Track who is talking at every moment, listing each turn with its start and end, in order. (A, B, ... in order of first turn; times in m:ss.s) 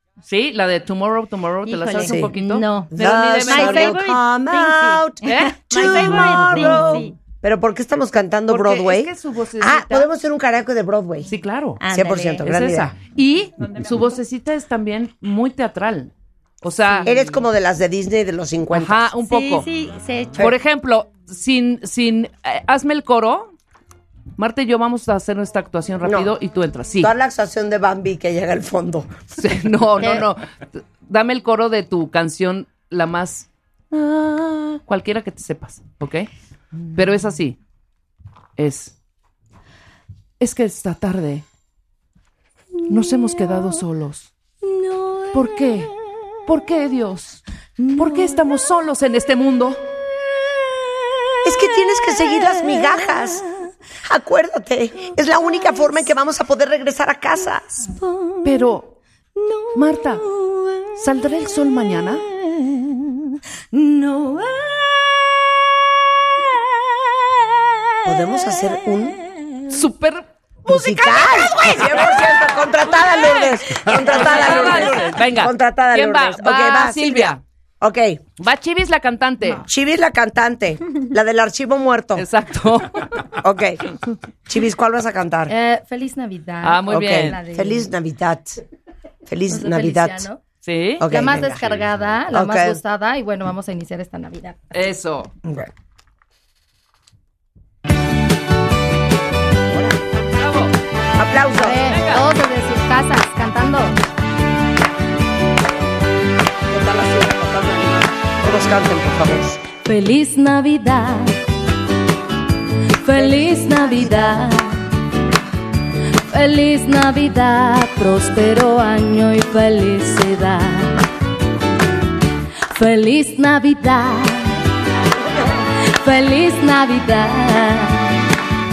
0:00.3-0:04.0 A
0:01.6-0:07.2 B
0:02.0-0:02.3 C
0:02.9-0:11.3 C
0:05.2-0:06.9 A
0:08.5-0:10.1 A
0:11.3-0:11.8 A
0:11.8-0:12.5 B
0:11.9-0:12.9 C
0:12.4-0:16.1 A
0:16.6-0:17.3 A
0:17.1-0:19.1 C
0:18.7-0:19.7 A
0:19.2-0:20.4 B
0:20.4-0:23.5 A
0:24.4-0:27.1 A
0:26.0-0:26.3 C
0:27.0-0:29.1 C
0:29.4-0:36.3 A
0:36.9-0:37.6 A
0:38.6-0:38.9 A
0:40.4-0:41.4 A
0:42.9-0:44.3 A
0:45.3-0:45.9 A
0:46.5-0:47.4 A
0:48.0-0:49.8 A
0:51.4-0:53.4 C
0:54.1-0:57.9 C
0:58.4-0:58.9 A
0:59.7-1:00.2 A
1:01.0-1:02.2 A
1:03.7-1:04.4 D
1:08.0-1:09.2 C
1:09.7-1:17.4 A
1:10.7-1:18.2 C
1:18.4-1:19.6 A
1:19.7-1:22.2 C
1:22.2-1:23.2 A
1:23.4-1:23.8 C
1:24.5-1:25.5 C
1:25.5-1:27.9 E
1:26.6-1:27.4 A
1:26.9-1:28.6 C
1:29.3-1:30.3 C
1:29.5-1:30.4 E
1:30.6-1:31.0 A
1:31.0-1:31.8 C
1:31.0-1:34.6 E
1:32.3-1:32.8 C
1:34.7-1:35.3 A
1:35.5-1:35.7 C
1:39.7-1:40.0 C
1:40.4-1:40.7 A
1:41.2-1:41.8 C
1:41.6-1:44.0 E
1:41.7-1:42.3 A
1:46.7-1:49.6 C
1:49.8-1:51.4 D
1:53.0-1:54.7 D
1:56.3-2:01.0 D
2:02.7-2:04.6 D
2:06.0-2:08.0 D